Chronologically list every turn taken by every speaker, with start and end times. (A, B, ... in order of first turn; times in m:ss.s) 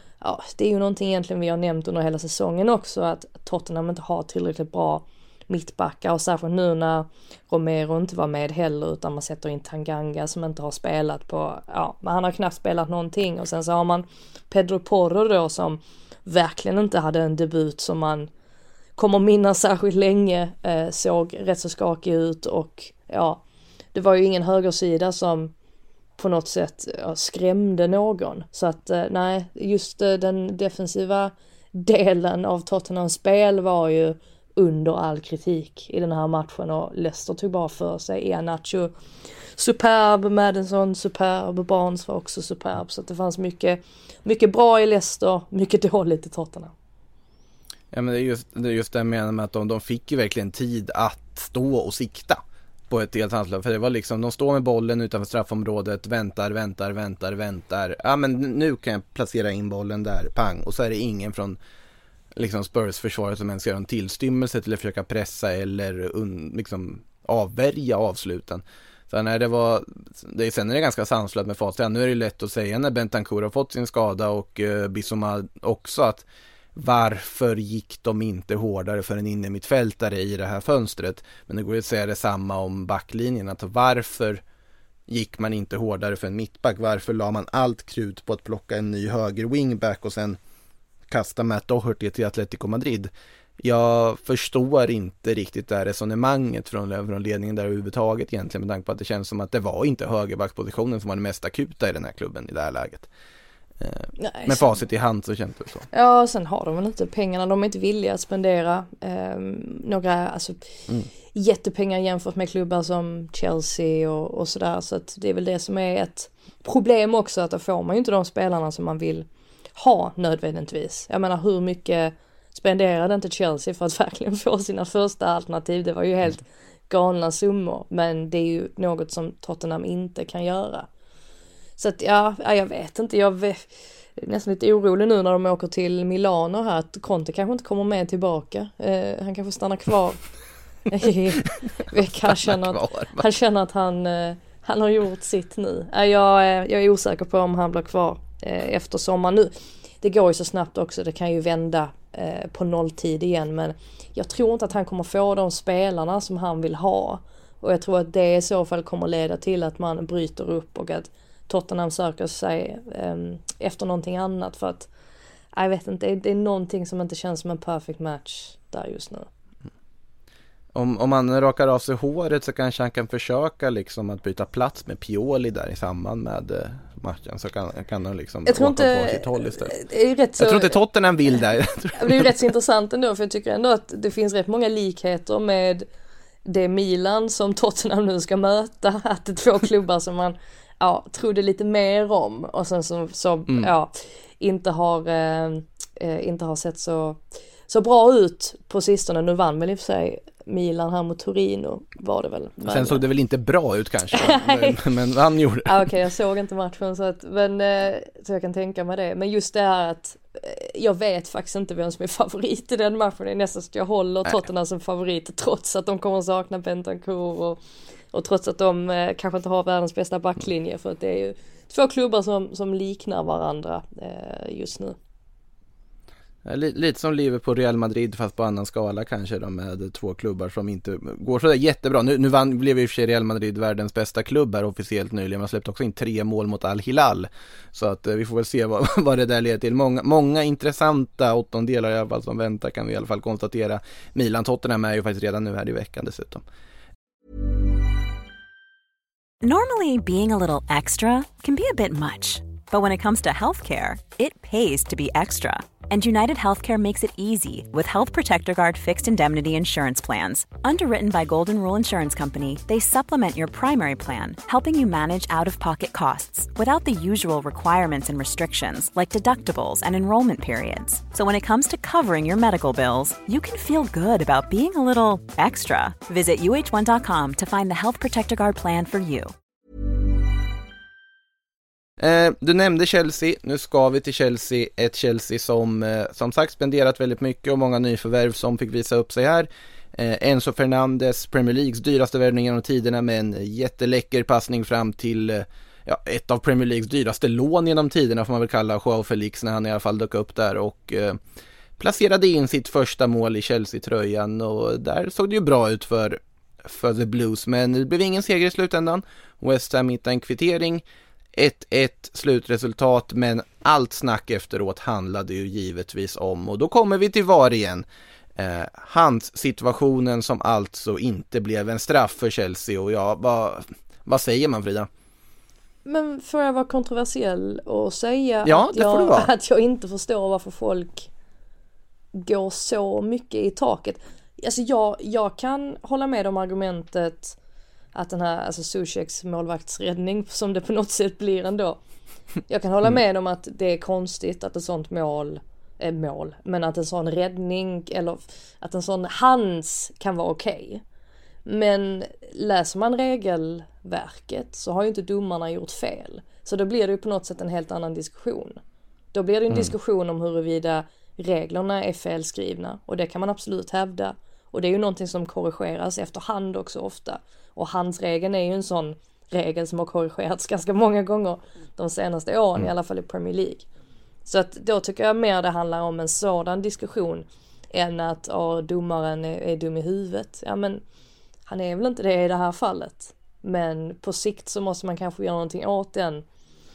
0:00.2-0:18.3 A
0:19.0-0:23.4 A
0:23.9-0:25.5 A
0:26.2-0:38.9 A
0:39.6-0:46.7 A
0:47.9-1:01.6 B
1:02.4-1:24.4 B
1:25.1-1:30.4 B
1:31.1-1:43.1 B
1:43.8-1:45.9 B
1:44.2-1:44.8 A
1:45.9-1:50.7 A
1:51.3-2:10.9 A
2:11.8-2:20.2 A
2:20.9-2:44.9 A
2:22.3-2:23.2 B
2:45.6-2:49.3 A
2:50.7-2:59.8 B
2:58.5-3:00.8 A
3:00.4-3:02.3 B
3:02.0-3:05.9 A
3:06.4-3:23.0 A
3:22.6-3:25.9 B
3:24.1-3:24.8 A
3:25.6-3:37.6 A
3:38.1-3:45.0 A
3:46.4-4:06.4 B
4:09.4-4:39.3 C
4:42.0-5:01.2 B
5:01.8-5:24.9 B
5:25.8-5:31.1 A
5:28.4-5:29.3 B
5:32.1-5:37.4 A
5:38.0-5:41.8 A
5:42.5-5:50.8 A
5:51.5-5:58.6 A
5:59.1-6:13.7 A
6:14.3-6:20.8 A
6:21.5-6:26.2 A